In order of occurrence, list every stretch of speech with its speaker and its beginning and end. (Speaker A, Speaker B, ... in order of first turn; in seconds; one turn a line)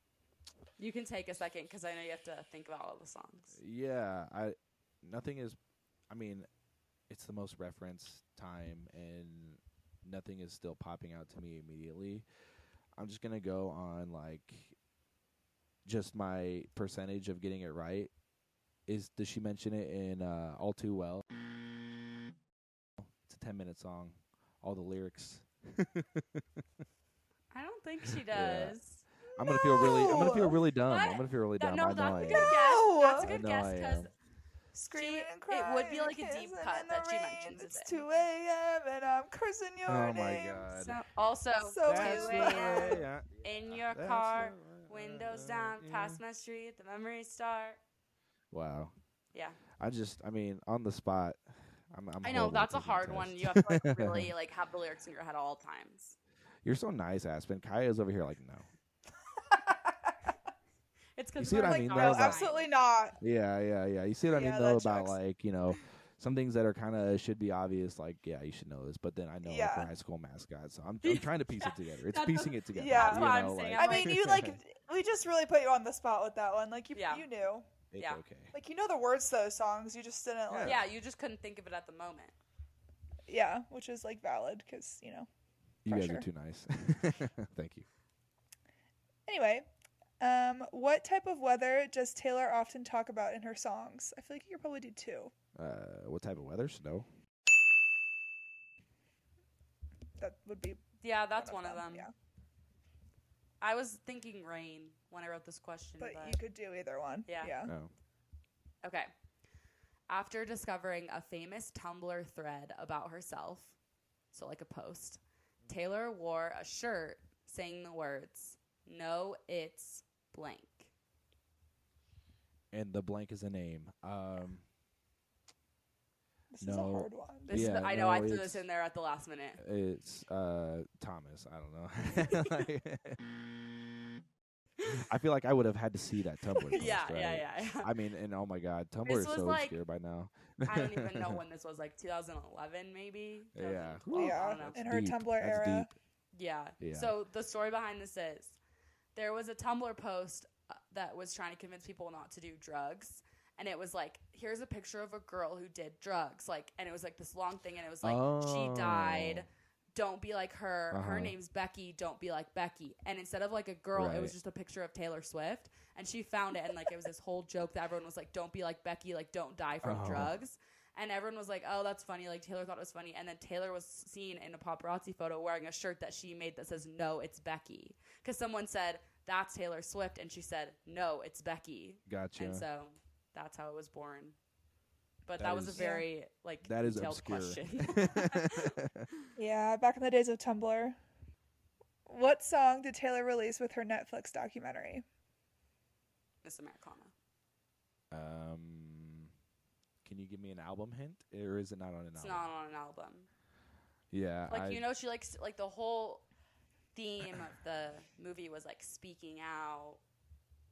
Speaker A: 0.8-3.6
Speaker B: 3.5-5.6
Speaker B: 6.1-6.5
Speaker B: 7.1-12.2
Speaker B: 12.9-14.8
Speaker B: 15.8-18.1
Speaker B: 18.9-21.2
Speaker B: 23.0-26.6
Speaker A: 27.5-29.0
Speaker B: 28.0-28.8
Speaker B: 29.4-32.6
Speaker C: 29.4-30.6
Speaker A: 30.9-34.1
Speaker C: 32.1-33.3
Speaker B: 33.2-34.1
Speaker C: 34.7-40.7
Speaker A: 34.9-38.0
Speaker B: 39.9-41.0
Speaker A: 40.7-47.8
Speaker C: 41.6-43.1
Speaker B: 41.9-46.2
Speaker B: 48.5-48.9
Speaker A: 49.3-49.6
Speaker B: 49.7-51.4
Speaker B: 51.9-54.3
Speaker A: 52.2-56.1
Speaker B: 56.6-58.7
Speaker C: 59.5-59.9
Speaker A: 61.2-62.7
Speaker B: 61.4-62.4
Speaker C: 61.5-63.2
Speaker B: 63.2-74.6
Speaker C: 64.3-65.2
Speaker C: 69.4-69.9
Speaker A: 71.0-74.2
Speaker C: 72.7-77.7
Speaker A: 76.9-77.2
Speaker B: 77.9-78.5
Speaker A: 78.0-78.2
Speaker C: 78.5-80.8
Speaker B: 80.5-80.8
Speaker A: 80.6-82.3
Speaker C: 83.3-85.3
Speaker B: 85.8-87.8
Speaker C: 85.9-86.2
Speaker C: 89.3-89.7
Speaker C: 90.2-95.3
Speaker B: 95.5-97.1
Speaker C: 100.2-102.1
Speaker A: 101.0-102.1
Speaker A: 103.6-106.4
Speaker C: 106.0-107.7
Speaker A: 107.2-107.5
Speaker B: 107.7-107.9
Speaker A: 108.8-109.1
Speaker A: 110.1-113.7
Speaker A: 114.3-120.9
Speaker B: 122.7-124.6
Speaker C: 126.5-127.7
Speaker B: 126.6-128.6
Speaker A: 127.5-129.6
Speaker B: 129.6-133.2
Speaker A: 132.2-132.7
Speaker B: 135.0-141.4
Speaker A: 136.7-137.9
Speaker A: 139.1-139.8
Speaker A: 140.7-144.8
Speaker B: 143.5-145.9
Speaker C: 144.1-145.9
Speaker A: 146.3-148.6
Speaker B: 146.8-147.1
Speaker A: 149.1-184.3
Speaker B: 158.0-159.4
Speaker B: 160.9-161.3
Speaker B: 163.9-164.3
Speaker B: 169.8-170.3
Speaker B: 182.1-182.6
Speaker A: 185.2-188.8
Speaker B: 185.4-185.8
Speaker C: 185.7-186.1
Speaker B: 186.6-189.1
Speaker C: 189.4-191.0
Speaker C: 192.1-195.0
Speaker A: 196.4-197.1
Speaker B: 198.1-199.3
Speaker B: 200.0-202.5
Speaker A: 202.2-203.3
Speaker B: 204.1-204.8
Speaker A: 204.5-206.2
Speaker A: 206.9-210.0